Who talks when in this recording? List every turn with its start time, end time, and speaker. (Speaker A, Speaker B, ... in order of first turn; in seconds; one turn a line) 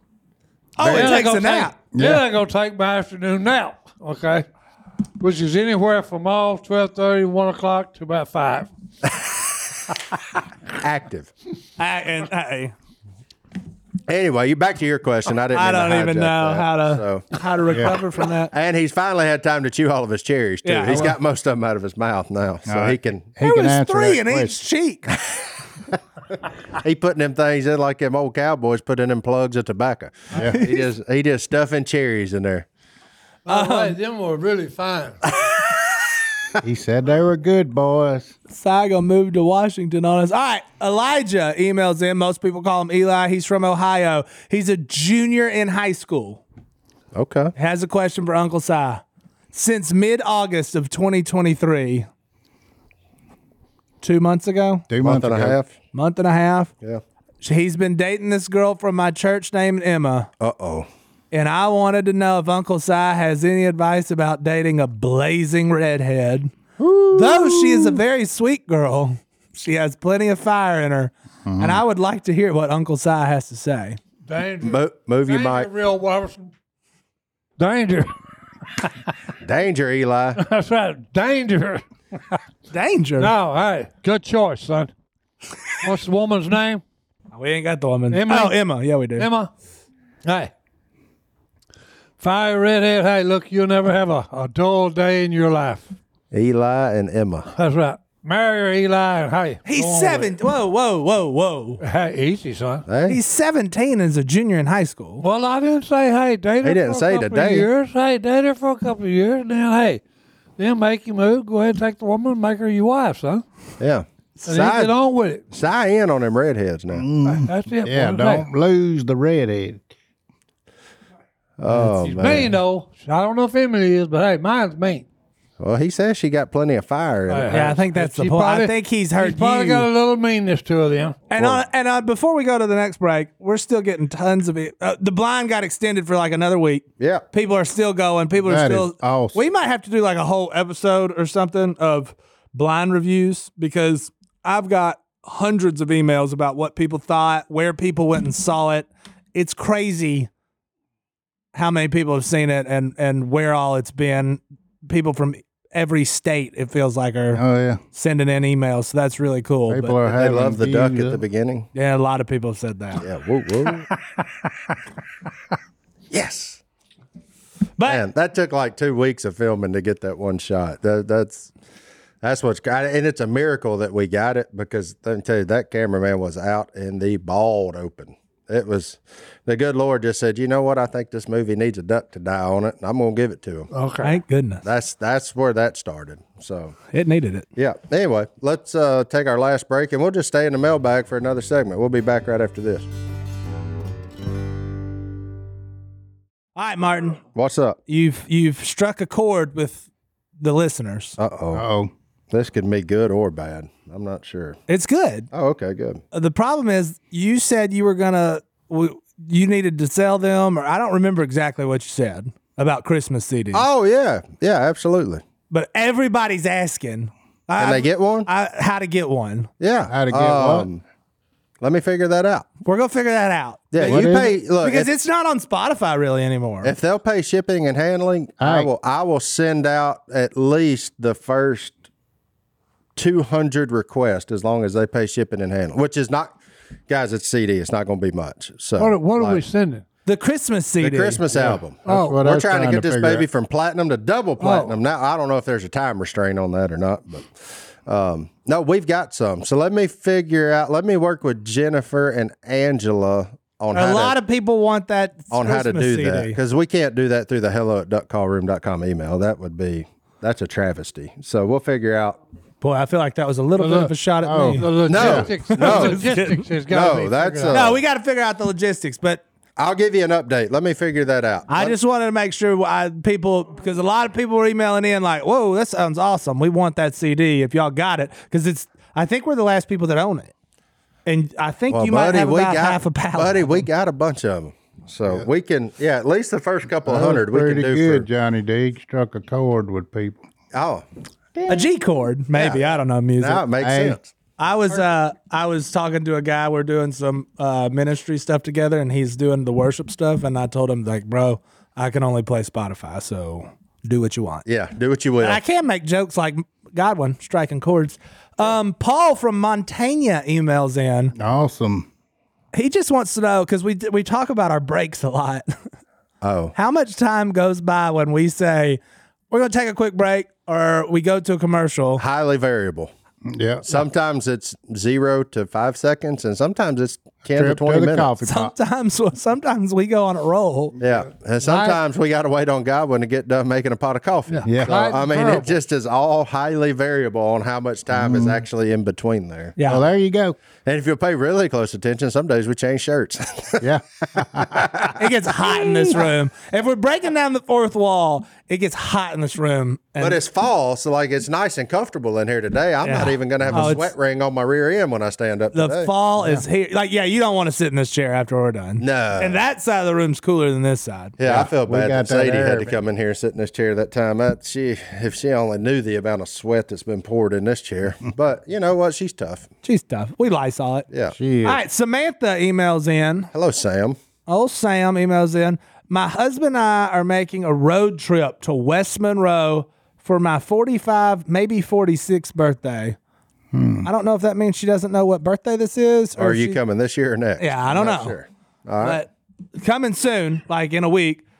Speaker A: 0.8-1.7
Speaker B: 0.8-1.2
Speaker C: 0.8-4.5
Speaker D: 1.9-2.2
Speaker C: 5.2-8.7
Speaker B: 10.8-11.3
Speaker A: 11.8-12.7
Speaker B: 14.1-17.3
Speaker A: 15.5-18.5
Speaker D: 17.7-18.0
Speaker B: 18.5-23.3
Speaker A: 20.6-21.2
Speaker D: 22.7-24.6
Speaker A: 23.4-25.1
Speaker B: 26.7-32.7
Speaker A: 30.4-30.9
Speaker C: 33.5-35.2
Speaker A: 33.5-34.0
Speaker D: 36.6-38.3
Speaker A: 38.5-46.4
Speaker B: 47.1-47.5
Speaker A: 47.6-49.0
Speaker A: 49.5-52.1
Speaker A: 54.0-54.9
Speaker D: 54.9-55.6
Speaker B: 55.0-55.7
Speaker A: 55.9-56.7
Speaker A: 57.4-60.3
Speaker B: 60.4-60.9
Speaker A: 61.3-66.5
Speaker B: 66.8-68.0
Speaker A: 67.1-74.0
Speaker D: 71.5-71.8
Speaker C: 74.3-76.5
Speaker B: 74.6-75.7
Speaker C: 77.6-78.1
Speaker B: 79.4-80.4
Speaker C: 80.4-82.4
Speaker A: 82.7-83.3
Speaker C: 83.2-84.9
Speaker C: 85.8-86.8
Speaker A: 87.3-89.3
Speaker C: 88.1-88.6
Speaker C: 89.2-89.5
Speaker C: 90.2-90.5
Speaker C: 92.2-95.9
Speaker B: 96.3-97.5
Speaker C: 97.5-100.3
Speaker A: 99.7-101.8
Speaker C: 101.8-102.9
Speaker B: 102.9-103.2
Speaker A: 103.1-105.2
Speaker C: 105.2-110.0
Speaker B: 106.6-107.7
Speaker C: 110.6-113.5
Speaker B: 113.8-114.9
Speaker C: 114.4-115.4
Speaker B: 115.5-117.1
Speaker D: 116.9-119.8
Speaker C: 117.3-118.5
Speaker B: 121.6-122.5
Speaker C: 121.7-125.1
Speaker B: 125.6-127.8
Speaker C: 127.3-131.2
Speaker A: 127.5-129.9
Speaker A: 131.3-150.3
Speaker B: 131.4-131.6
Speaker D: 138.4-139.4
Speaker A: 151.5-157.4
Speaker D: 157.3-157.8
Speaker A: 157.9-160.0
Speaker D: 159.7-161.2
Speaker B: 160.1-161.7
Speaker A: 161.8-163.1
Speaker B: 163.0-163.9
Speaker B: 166.1-166.6
Speaker A: 167.8-168.0
Speaker B: 167.9-171.5
Speaker B: 172.2-183.7
Speaker C: 183.7-184.2
Speaker A: 184.0-184.6
Speaker B: 184.6-186.8
Speaker A: 186.9-187.5
Speaker B: 187.6-192.9
Speaker A: 196.6-197.2
Speaker B: 197.3-197.8
Speaker A: 197.9-199.8
Speaker A: 200.4-201.2
Speaker B: 201.2-201.7
Speaker D: 201.5-201.9
Speaker B: 202.3-204.6
Speaker A: 204.7-205.3
Speaker B: 205.3-206.0
Speaker A: 206.1-213.7
Speaker B: 213.5-215.2
Speaker A: 215.5-219.5
Speaker B: 217.6-218.3
Speaker B: 219.6-220.8
Speaker D: 219.9-220.7
Speaker B: 221.6-222.5
Speaker A: 222.7-226.7
Speaker B: 223.7-224.9
Speaker D: 223.8-224.3
Speaker B: 226.6-231.8
Speaker D: 228.4-228.7
Speaker B: 232.9-236.4
Speaker B: 236.9-239.4
Speaker C: 238.8-239.8
Speaker A: 240.1-241.2
Speaker B: 240.8-254.2
Speaker D: 241.3-243.3
Speaker C: 241.8-242.2
Speaker C: 244.4-244.8
Speaker A: 253.7-256.4
Speaker B: 255.3-262.2
Speaker A: 262.6-266.5
Speaker C: 263.6-263.9
Speaker D: 264.2-265.3
Speaker C: 264.6-267.7
Speaker B: 264.9-266.0
Speaker B: 266.7-267.8
Speaker A: 267.5-269.2
Speaker B: 269.6-271.8
Speaker A: 271.5-280.3
Speaker A: 281.1-283.7
Speaker B: 281.7-288.1
Speaker D: 286.9-290.2
Speaker B: 290.5-291.6
Speaker A: 291.5-293.4
Speaker B: 292.3-294.1
Speaker D: 293.6-294.0
Speaker A: 294.4-304.5
Speaker B: 304.5-305.4
Speaker A: 305.2-311.1
Speaker D: 311.2-311.9
Speaker A: 312.5-315.6
Speaker B: 316.2-316.5
Speaker A: 316.6-318.8
Speaker A: 319.3-322.0
Speaker B: 322.0-322.9
Speaker D: 323.3-323.8
Speaker B: 323.6-328.1
Speaker D: 327.2-328.5
Speaker A: 328.2-330.8
Speaker B: 330.8-339.6
Speaker C: 331.4-331.8
Speaker C: 334.3-335.6
Speaker D: 334.4-334.7
Speaker D: 337.9-338.4
Speaker A: 339.6-339.9
Speaker D: 339.7-340.4
Speaker B: 340.6-346.0
Speaker D: 343.6-344.7
Speaker A: 344.9-350.2
Speaker B: 350.0-355.9
Speaker A: 352.8-353.9
Speaker A: 355.5-361.2
Speaker B: 358.8-359.4
Speaker B: 361.2-369.5
Speaker D: 361.2-362.8
Speaker A: 369.6-370.9
Speaker B: 370.9-371.1
Speaker D: 371.1-371.6
Speaker A: 371.4-373.3
Speaker B: 373.3-374.0
Speaker A: 374.3-383.0
Speaker D: 383.5-383.9
Speaker A: 383.8-386.6
Speaker B: 386.2-389.0
Speaker A: 387.4-388.2
Speaker A: 388.8-391.2